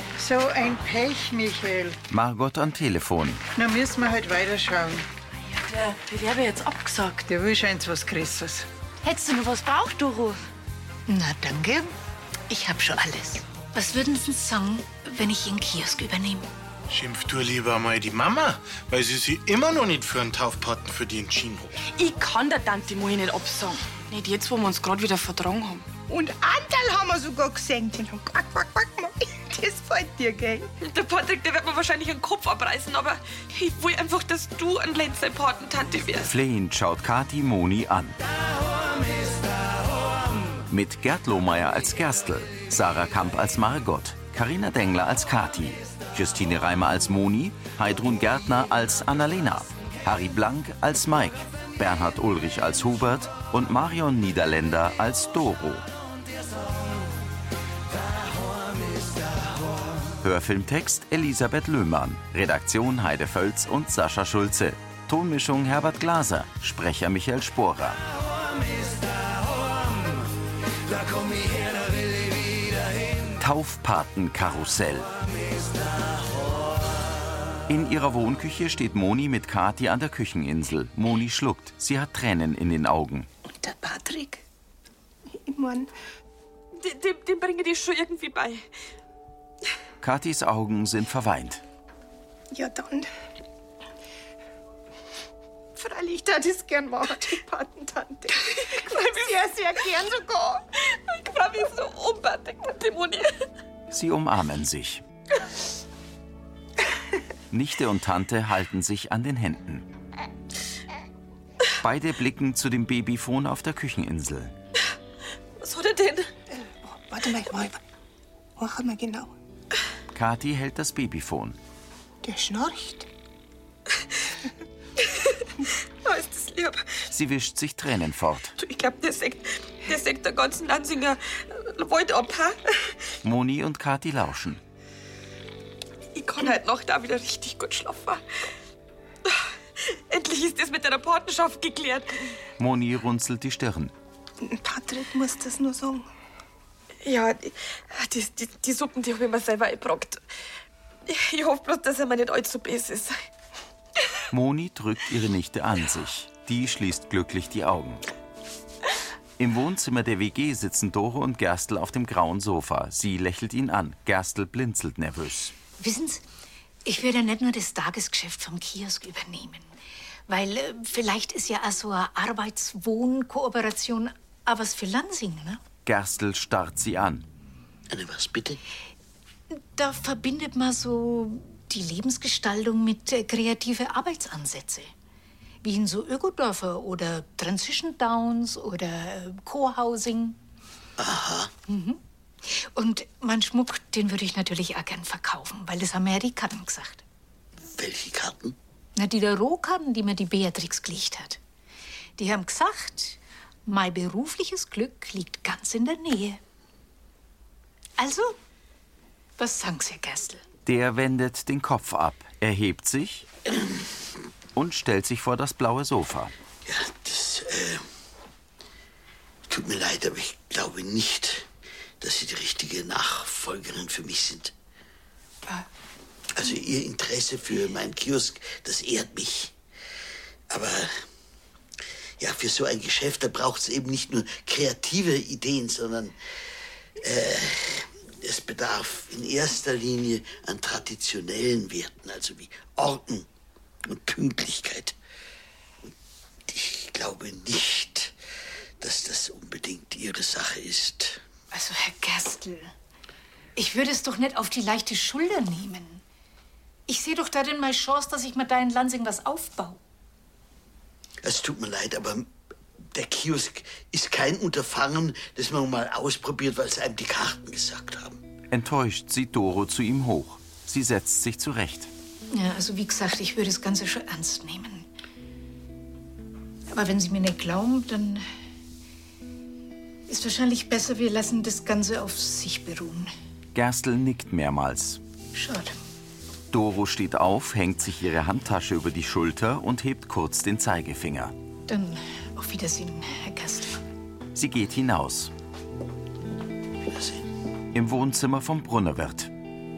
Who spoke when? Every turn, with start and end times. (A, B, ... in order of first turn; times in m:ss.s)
0:00.2-0:02.0 A
0:02.1-0:03.4 B
0:03.6-0:05.0 A
0:05.9-0:06.9 C
0:07.3-0:08.7 A
0:09.0-0:10.0 C
0:11.1-0:11.9 C
0:12.5-0:16.5 C
0:16.9-0:21.8 D
0:21.9-0:25.9 E
0:26.1-0:30.7 F
0:30.8-0:36.3 E
0:36.2-0:38.2 B
0:40.7-0:55.9 B
1:00.2-1:08.0 B
1:13.4-1:15.1 B
1:17.7-1:23.3 B
1:23.7-1:24.3 F
1:25.3-1:25.9 F
1:26.8-1:28.6 E
1:30.0-1:31.6 B
1:32.5-1:33.1 F
1:35.8-1:40.6 F
1:38.8-1:39.3 E
1:40.9-1:43.4 E
1:43.9-1:45.0 B
1:47.5-1:49.9 B
1:51.8-1:54.5 B
1:55.6-1:56.3 E
1:56.8-1:57.8 F
1:58.6-1:59.3 F
2:00.2-2:01.6 B
2:02.2-2:03.1 F
2:05.0-2:05.4 E
2:06.0-2:06.9 E
2:07.1-2:08.6 B
2:08.6-2:12.9 E
2:13.2-2:14.6 B
2:16.2-2:18.2 E
2:19.3-2:22.4 E
2:22.6-2:23.9 B
2:24.4-2:26.1 F
2:27.0-2:30.2 E
2:31.1-2:33.2 E
2:34.3-2:38.0 B
2:39.4-2:45.6 B
2:45.8-2:46.2 C
2:46.9-2:49.7 C
2:50.3-2:55.6 C
2:55.9-2:57.2 B
2:57.9-2:58.6 G
2:59.5-3:04.9 C
3:05.6-3:10.4 C
3:11.0-3:11.5 G
3:11.7-3:17.0 C
3:17.6-3:18.6 G
3:19.0-3:21.4 C
3:22.2-3:26.4 C
3:28.0-3:28.4 C
3:29.4-3:30.4 C
3:30.7-3:33.3 B
3:34.6-3:36.3 B
3:36.6-3:37.8 G
3:39.5-3:41.5 G
3:42.0-3:44.5 G
3:46.3-3:49.5 G
3:50.5-3:50.9 G
3:52.2-3:56.2 G
3:57.0-4:03.3 G
4:03.8-4:05.0 G
4:06.5-4:08.2 G
4:08.8-4:11.2 G
4:11.5-4:12.7 C
4:13.6-4:16.0 C
4:16.9-4:19.8 C
4:21.2-4:22.3 G
4:22.9-4:28.2 G
4:28.5-4:31.9 B
4:32.3-4:34.9 C
4:36.7-4:38.2 C
4:40.1-4:43.1 C
4:43.6-4:45.0 B
4:45.3-4:45.8 C
4:46.5-4:51.3 B
4:51.7-4:53.8 C
4:54.4-4:55.3 B
4:56.9-4:57.3 G
4:57.7-4:59.3 B